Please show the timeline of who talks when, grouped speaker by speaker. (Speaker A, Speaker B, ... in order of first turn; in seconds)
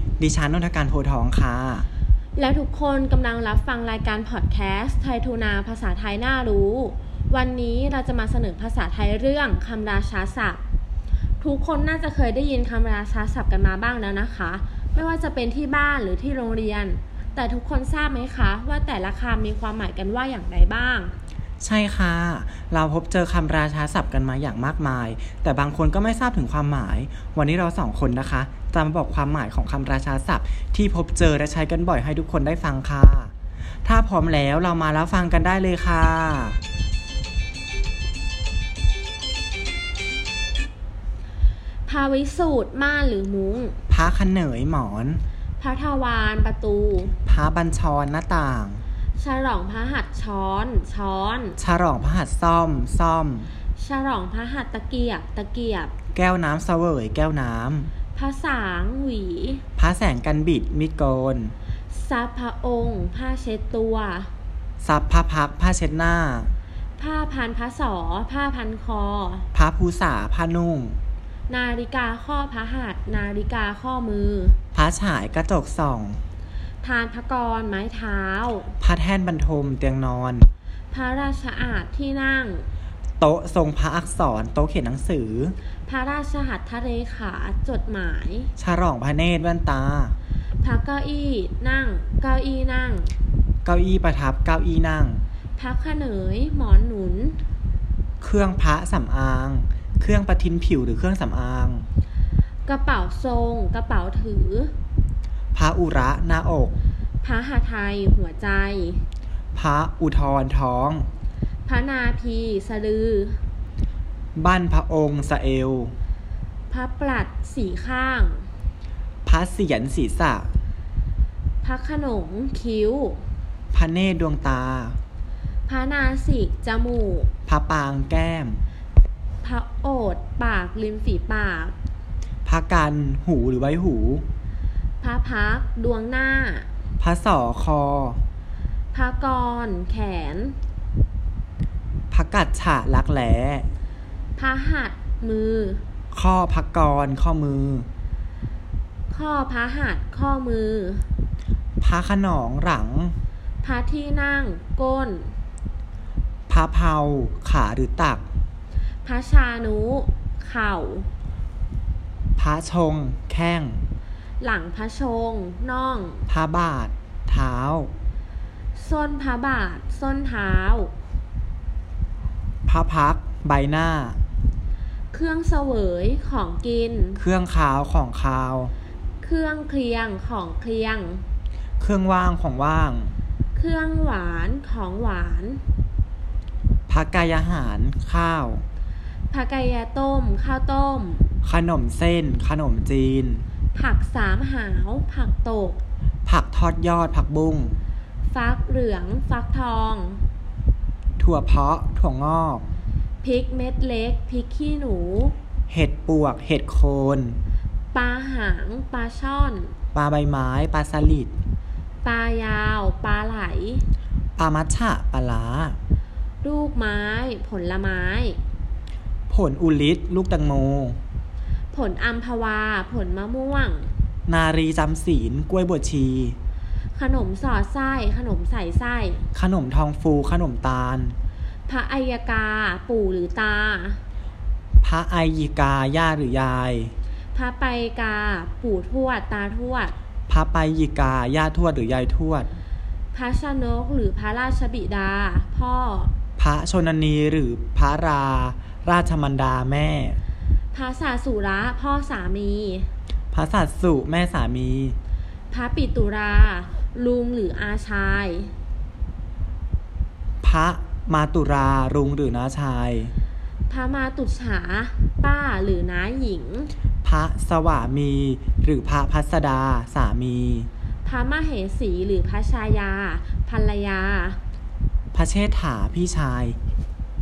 Speaker A: 0.2-1.9, 21.6-33.3, 33.9-36.6, 43.9-45.2, 47.2-48.8, 51.6-53.5, 56.1-57.9, 59.8-61.5, 64.8-66.5, 69.5-71.0, 74.7-76.2, 78.8-80.5, 83.2-85.5, 88.6-90.2, 93.7-95.2, 98.2-101.8, 105.5-106.8, 109.5-111.1, 114.4-116.0, 119.3-120.5, 123.7-125.0, 127.5-128.6, 132.4-134.2, 137.0-138.2, 142.1-143.7, 146.1-147.9, 151.8-153.2, 156.5-158.3, 162.4-163.9, 166.3-167.9, 172.7-174.2, 177.2-178.7, 181.8-183.2, 186.9-188.7, 191.4-193.4, 196.3-197.8, 201.2-202.7, 205.7-207.4, 209.9-211.3, 214.4-215.8, 219.3-221.0, 224.3-226.4, 229.3-231.2, 234.8-236.9, 240.3-242.5, 246.4-250.2, 253.3-255.0, 260.4-263.1, 267.0-270.7, 275.1-276.6
Speaker B: 2.4-10.6, 11.4-21.1, 41.9-43.8, 45.6-47.1, 49.2-51.6, 53.8-55.9, 58.1-59.6, 61.9-64.3, 67.0-69.5, 71.5-74.6, 76.8-78.7, 80.9-82.7, 85.9-88.5, 90.6-93.1, 95.6-97.4, 102.7-104.7, 107.2-109.0, 111.7-113.4, 116.7-118.5, 121.6-123.2, 125.7-127.3, 129.4-131.8, 135.0-136.7, 138.9-140.6, 144.4-145.8, 149.1-151.1, 153.6-155.3, 159.0-161.1, 164.4-166.3, 168.8-170.9, 175.1-177.2, 179.2-181.2, 183.6-185.6, 189.3-191.3, 193.8-195.8, 198.3-200.2, 203.2-205.3, 207.9-209.7, 212.0-213.8, 216.4-218.4, 221.7-223.9, 226.9-229.2, 231.7-234.0, 237.3-239.9, 243.1-246.1, 250.7-252.9, 255.5-258.5, 263.7-266.7, 271.0-274.4